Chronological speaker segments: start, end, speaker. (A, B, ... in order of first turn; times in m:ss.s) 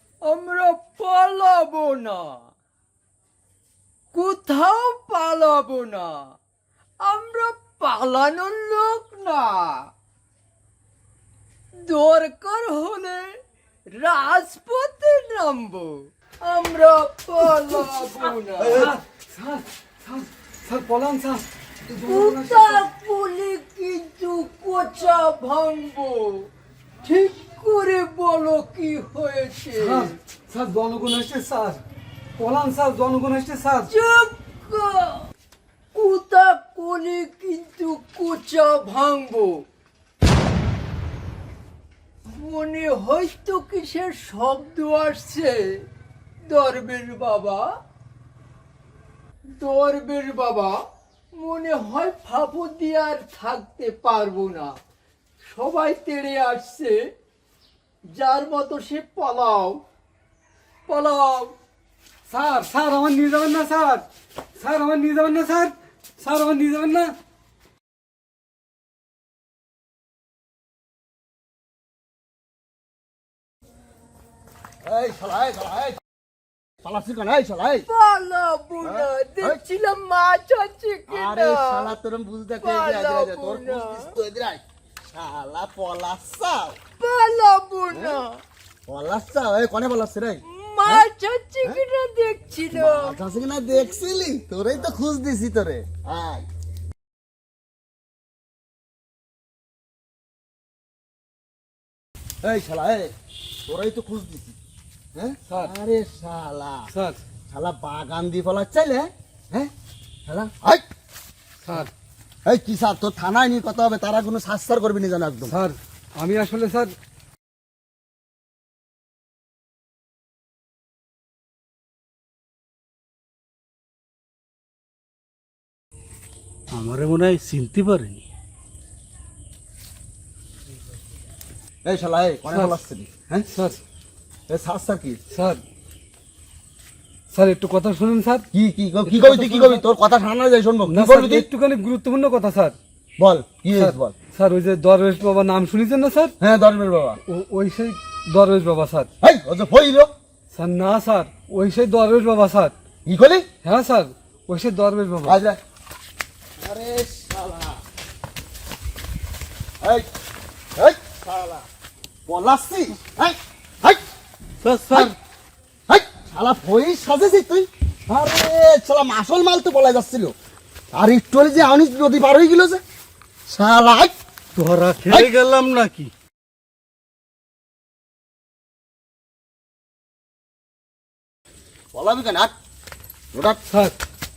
0:00.3-0:02.4 A
0:04.1-0:06.2 A
0:07.0-0:09.9 A
0:11.8-0:13.3 A
0:13.9-0:18.9 A
0:18.6-0:22.8 B
0:22.0-0:26.5 A
0:27.0-0:30.2 A
0:29.7-0:31.8 B
0:32.4-0:33.9 B
0:33.9-0:35.2 A
0:35.9-0:39.6 A
0:42.3-0:45.8 A
0:46.5-0:47.6 A
0:49.6-0:50.8 A
0:51.3-0:54.7 A
0:55.4-0:57.0 A
0:58.1-0:59.8 A
1:00.9-1:01.5 A
1:02.3-1:04.0 B
1:04.6-1:07.1 B
1:14.8-1:16.0 C
1:16.8-1:17.9 C
1:17.9-1:21.9 A
1:18.8-1:19.6 C
1:21.1-1:26.8 C
1:22.6-1:24.1 A
1:27.0-1:28.4 A
1:27.9-1:28.2 C
1:28.9-1:31.0 C
1:30.5-1:33.2 A
1:32.7-1:36.4 C
1:42.4-1:43.1 C
1:43.6-1:44.6 C
1:45.1-1:46.9 C
1:46.9-1:47.2 B
1:47.5-1:49.7 C
1:50.3-1:50.8 C
1:51.6-1:51.9 B
1:52.4-1:55.6 C
1:55.5-1:56.9 B
2:06.7-2:08.2 D
2:11.8-2:13.1 C
2:12.5-2:12.8 B
2:13.3-2:13.8 B
2:14.5-2:15.2 C
2:15.3-2:15.6 B
2:17.3-2:18.4 B
2:18.5-2:21.4 C
2:19.0-2:19.8 B
2:20.9-2:22.7 B
2:23.2-2:24.1 C
2:23.8-2:26.3 B
2:26.4-2:27.2 C
2:27.2-2:29.1 B
2:29.2-2:30.1 C
2:30.5-2:32.7 B
2:33.0-2:33.4 C
2:33.6-2:35.4 B
2:35.2-2:35.6 C
2:36.6-2:37.8 C
2:39.8-2:40.1 C
2:40.8-2:41.6 C
2:42.3-2:44.0 C
2:44.6-2:45.1 D
2:45.9-2:50.3 C
2:50.9-2:52.8 C
2:53.5-2:54.1 C
2:54.5-2:56.1 D
3:01.9-3:02.5 C
3:03.3-3:03.6 C
3:03.7-3:04.0 B